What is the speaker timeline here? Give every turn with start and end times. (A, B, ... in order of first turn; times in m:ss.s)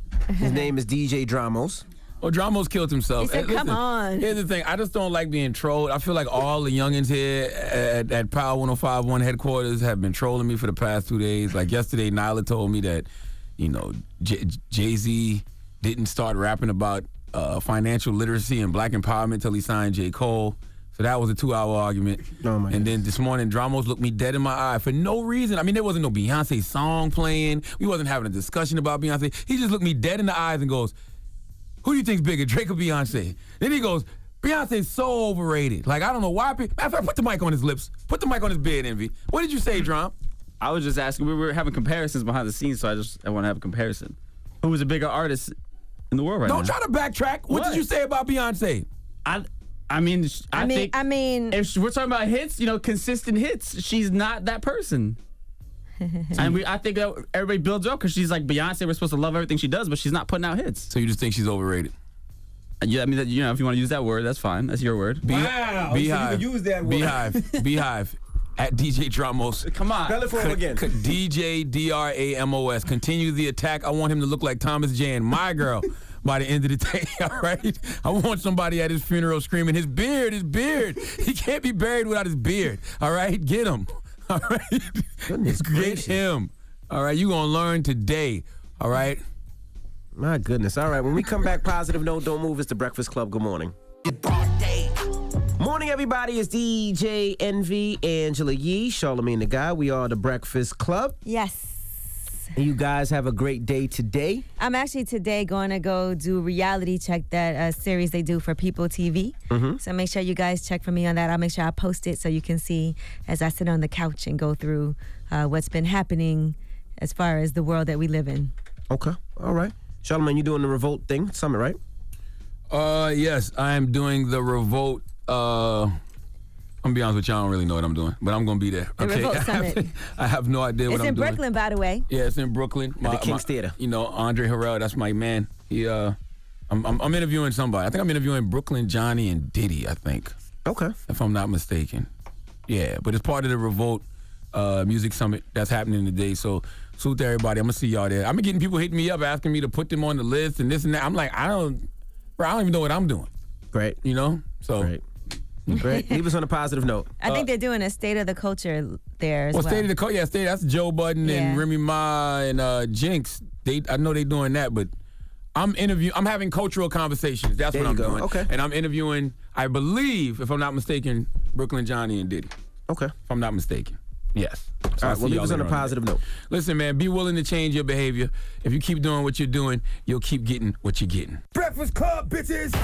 0:00.3-0:00.6 A
0:00.4-0:01.8 B
0:02.2-0:13.1 C
0:03.2-0:04.3 A
0:13.6-0:30.9 C
0:22.4-0:22.9 B
0:31.8-0:40.1 C
0:40.6-0:45.5 D
0:46.1-0:46.7 D
0:46.4-0:48.9 C
0:47.5-0:47.8 D
0:49.2-0:50.9 D
0:50.5-0:51.6 A
0:51.5-0:55.2 D
0:56.1-0:56.5 A
0:56.4-1:00.9 D
1:00.9-1:01.9 C
1:02.8-1:05.2 D
1:05.2-1:09.7 C
1:05.3-1:07.2 B
1:09.8-1:10.1 D
1:10.0-1:10.9 B
1:10.3-1:29.2 C
1:25.3-1:26.2 B
1:30.1-1:33.7 B
1:35.6-1:41.2 B
1:41.2-1:42.2 A
1:42.6-1:44.4 B
1:44.6-1:58.5 A
1:49.5-1:49.8 B
1:58.9-2:01.8 B
2:02.7-2:05.9 C
2:06.8-2:11.4 C
2:09.0-2:09.9 A
2:10.9-2:12.0 A
2:12.1-2:16.2 C
2:13.0-2:13.7 B
2:16.7-2:20.3 C
2:20.6-2:20.9 B
2:21.1-2:22.1 C
2:22.7-2:31.9 C
2:32.4-2:33.3 C
2:33.7-2:34.0 B
2:34.0-2:34.9 C
2:35.7-2:37.1 B
2:37.2-2:39.9 A
2:39.5-2:44.9 C
2:41.2-2:41.6 A
2:45.6-2:52.5 C
2:47.7-2:48.5 B
2:52.9-2:53.1 B
2:53.3-2:56.0 C
2:55.0-2:56.2 B
2:56.5-3:01.4 C